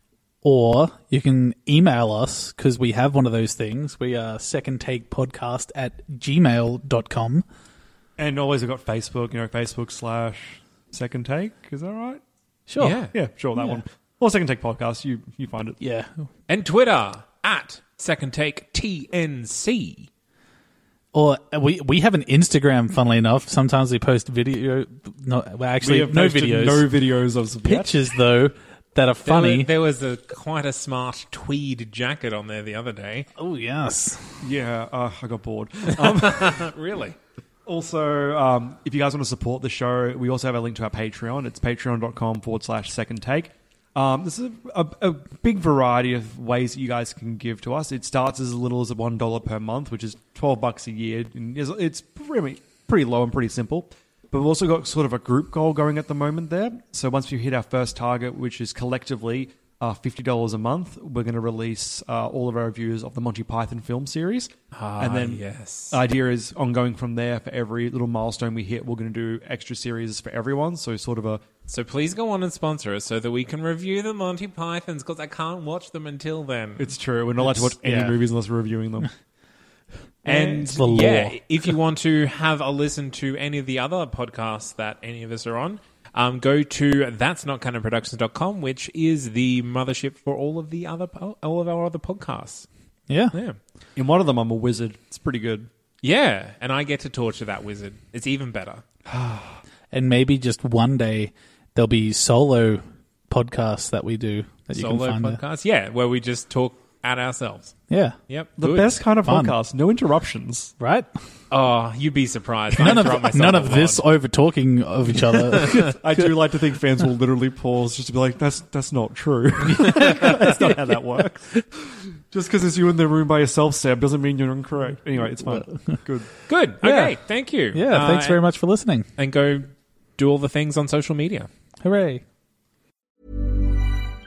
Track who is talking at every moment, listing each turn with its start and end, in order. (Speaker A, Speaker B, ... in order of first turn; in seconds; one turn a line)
Speaker A: 0.4-7.5
Speaker B: 8.2-12.2
Speaker A: 12.7-13.8
Speaker C: 12.8-13.1
Speaker B: 13.1-15.8
Speaker A: 15.8-16.3
Speaker C: 16.5-20.1
Speaker A: 21.1-26.9
Speaker B: 25.8-27.9
Speaker A: 27.6-29.7
Speaker C: 29.2-33.3
Speaker A: 33.4-34.5
Speaker B: 34.4-36.7
Speaker C: 35.9-37.2
Speaker B: 37.6-71.4
Speaker C: 64.7-66.0
Speaker C: 71.7-78.2
Speaker B: 76.8-79.1
Speaker B: 80.2-80.9
Speaker C: 80.2-92.7
Speaker A: 80.8-81.4
Speaker A: 93.1-93.3
Speaker C: 93.3-93.6
Speaker B: 94.0-95.7
Speaker C: 96.0-98.8
Speaker B: 99.1-99.6
Speaker A: 99.9-105.4
Speaker C: 104.7-107.7
Speaker A: 107.9-108.2
Speaker C: 108.3-108.9
Speaker B: 108.6-110.7
Speaker A: 109.2-109.6
Speaker A: 110.8-111.1
Speaker C: 111.5-114.0
Speaker A: 112.7-116.3
Speaker C: 115.3-115.8
Speaker B: 115.6-126.3
Speaker A: 119.6-121.2
Speaker A: 125.4-126.0
Speaker C: 126.5-128.6
Speaker A: 126.8-127.2
Speaker A: 127.7-129.1
Speaker C: 129.2-131.5
Speaker A: 131.8-132.2